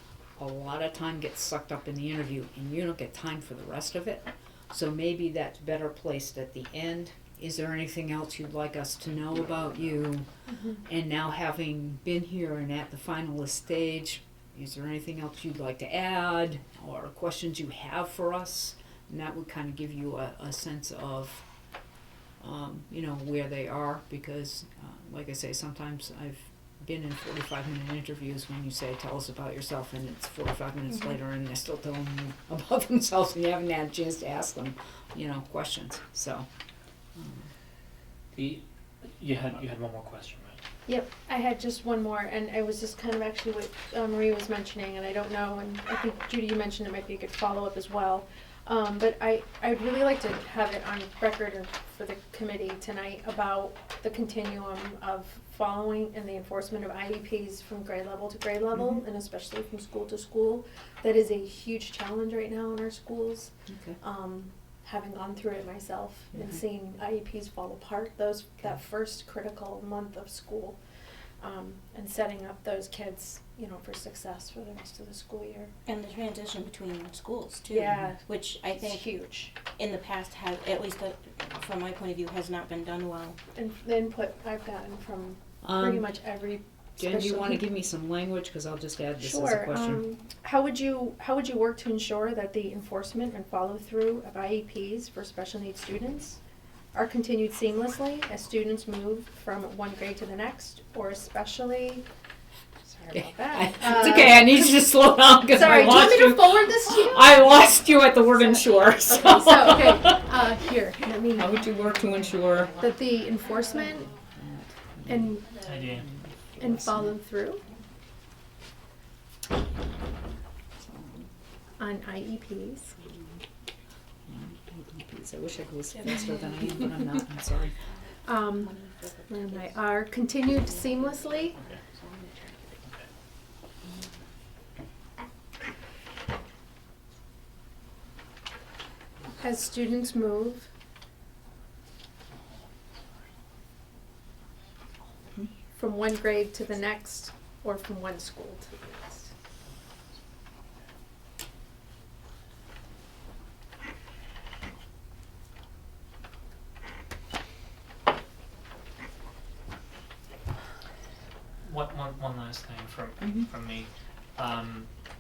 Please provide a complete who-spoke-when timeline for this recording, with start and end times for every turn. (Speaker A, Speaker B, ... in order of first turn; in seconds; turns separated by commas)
Speaker A: 0.4-10.3, Speaker B: 10.5-10.8, Speaker A: 10.8-21.4, Speaker A: 22.4-36.5, Speaker A: 37.2-37.5, Speaker C: 38.3-38.6, Speaker C: 39.2-40.6, Speaker B: 40.9-70.8, Speaker A: 63.7-64.0, Speaker B: 71.4-75.7, Speaker D: 75.9-83.4, Speaker B: 77.7-78.1, Speaker B: 78.8-79.6, Speaker B: 83.5-87.6, Speaker A: 85.6-86.1, Speaker A: 87.0-90.0, Speaker B: 89.2-96.4, Speaker B: 96.9-102.1, Speaker B: 102.8-104.7, Speaker A: 103.1-110.3, Speaker B: 105.5-107.5, Speaker B: 108.2-112.1, Speaker A: 111.3-112.7, Speaker B: 112.8-114.1, Speaker A: 114.3-117.2, Speaker B: 115.1-115.5, Speaker C: 115.6-116.1, Speaker B: 116.6-117.6, Speaker A: 120.9-121.3, Speaker B: 121.8-123.0, Speaker A: 123.0-123.4, Speaker A: 124.3-127.8, Speaker B: 128.2-128.7, Speaker B: 129.3-131.6, Speaker D: 130.7-132.6, Speaker B: 139.4-140.7, Speaker B: 145.8-149.3, Speaker C: 161.6-164.9, Speaker A: 163.2-163.5